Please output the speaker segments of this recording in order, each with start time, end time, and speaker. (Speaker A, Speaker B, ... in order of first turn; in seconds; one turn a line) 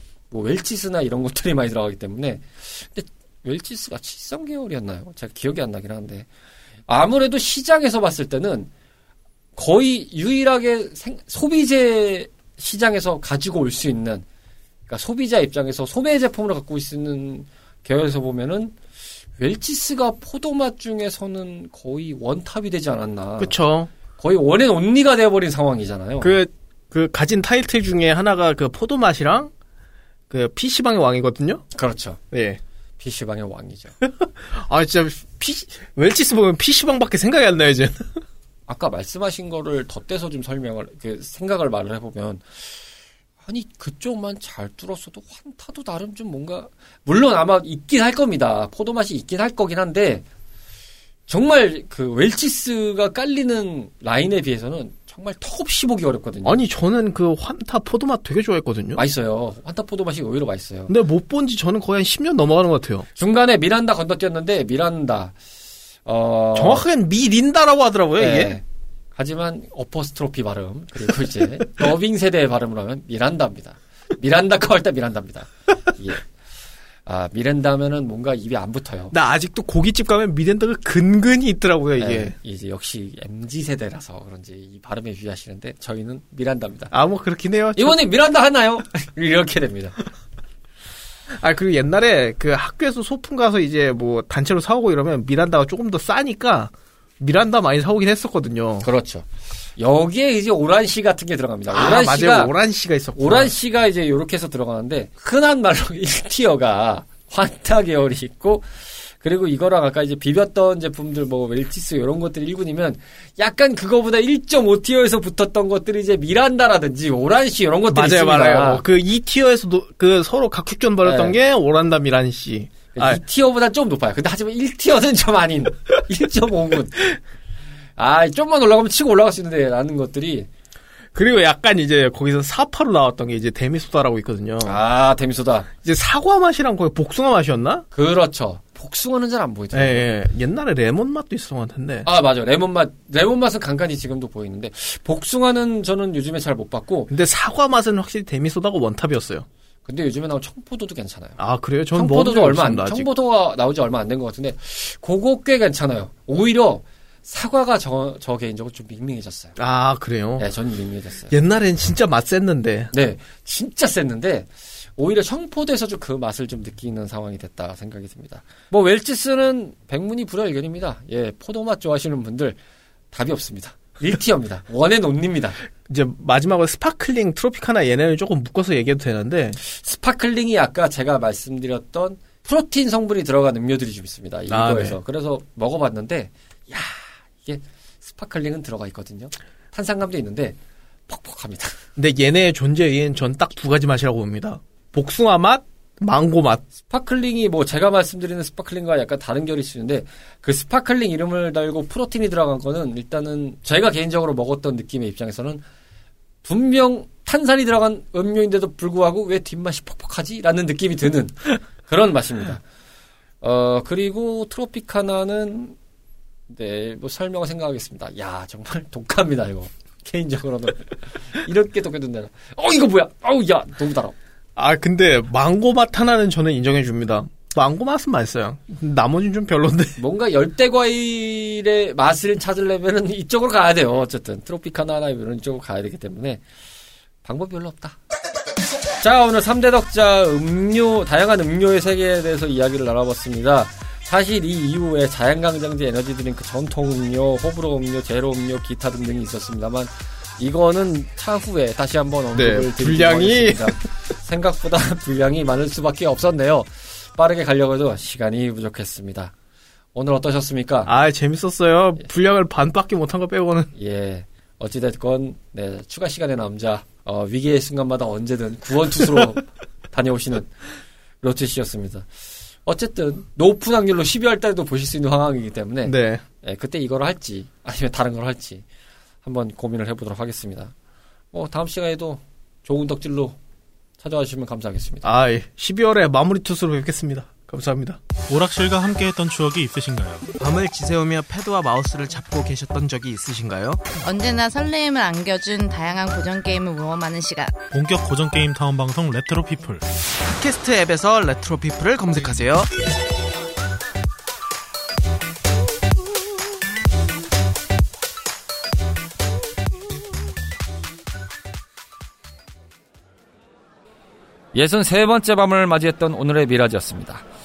Speaker A: 0.3-6.3
Speaker A: 6.9-8.7
Speaker A: 9.6-14.2
Speaker A: 14.9-18.7
Speaker A: 19.4-23.6
Speaker B: 23.4-23.9
Speaker A: 24.2-26.3
Speaker B: 26.2-29.5
Speaker B: 30.3-31.6
Speaker A: 31.7-32.2
Speaker B: 32.3-32.6
Speaker A: 33.0-33.9
Speaker B: 34.0-38.2
Speaker A: 38.7-42.7
Speaker A: 43.4-50.2
Speaker A: 51.3-56.6
Speaker B: 56.4-59.0
Speaker A: 59.0-60.9
Speaker B: 60.9-63.1
Speaker A: 63.1-65.3
Speaker A: 66.0-66.8
Speaker B: 66.5-68.5
Speaker A: 68.2-68.6
Speaker A: 69.2-76.3
Speaker A: 77.0-79.1
Speaker B: 79.1-82.3
Speaker A: 82.0-86.9
Speaker B: 86.9-88.0
Speaker A: 87.8-89.9
Speaker B: 91.3-98.9
Speaker A: 98.8-102.5
Speaker B: 101.7-103.5
Speaker A: 103.2-118.8
Speaker B: 117.9-123.2
Speaker A: 121.0-121.4
Speaker A: 122.9-127.1
Speaker A: 128.0-130.5
Speaker B: 131.1-134.8
Speaker A: 134.6-135.7
Speaker B: 135.8-137.8
Speaker A: 137.9-140.1
Speaker B: 139.7-142.1
Speaker A: 142.0-147.1
Speaker B: 147.1-149.4
Speaker A: 149.9-151.4
Speaker B: 151.4-153.1
Speaker A: 151.9-159.5
Speaker B: 159.6-160.5
Speaker A: 160.4-161.3
Speaker B: 161.3-162.9
Speaker A: 162.9-172.6
Speaker A: 173.1-175.6
Speaker B: 175.9-179.6
Speaker A: 179.6-191.8
Speaker B: 184.5-185.0
Speaker B: 191.9-196.6
Speaker A: 196.9-205.6
Speaker A: 206.4-212.6
Speaker A: 213.4-215.8
Speaker A: 216.5-224.2
Speaker B: 224.6-230.0
Speaker A: 230.0-236.4
Speaker A: 237.2-238.0
Speaker A: 239.0-259.3
Speaker B: 252.3-253.8
Speaker A: 259.9-260.9
Speaker B: 260.9-263.7
Speaker A: 263.7-270.5
Speaker A: 271.2-272.1
Speaker A: 272.6-278.6
Speaker B: 275.8-276.2
Speaker A: 279.2-280.7
Speaker A: 281.3-283.4
Speaker A: 284.0-285.1
Speaker B: 285.0-288.0
Speaker C: 288.3-290.3
Speaker B: 290.4-293.8
Speaker D: 294.0-297.5
Speaker C: 297.7-299.8
Speaker B: 300.3-302.7
Speaker A: 314.5-317.2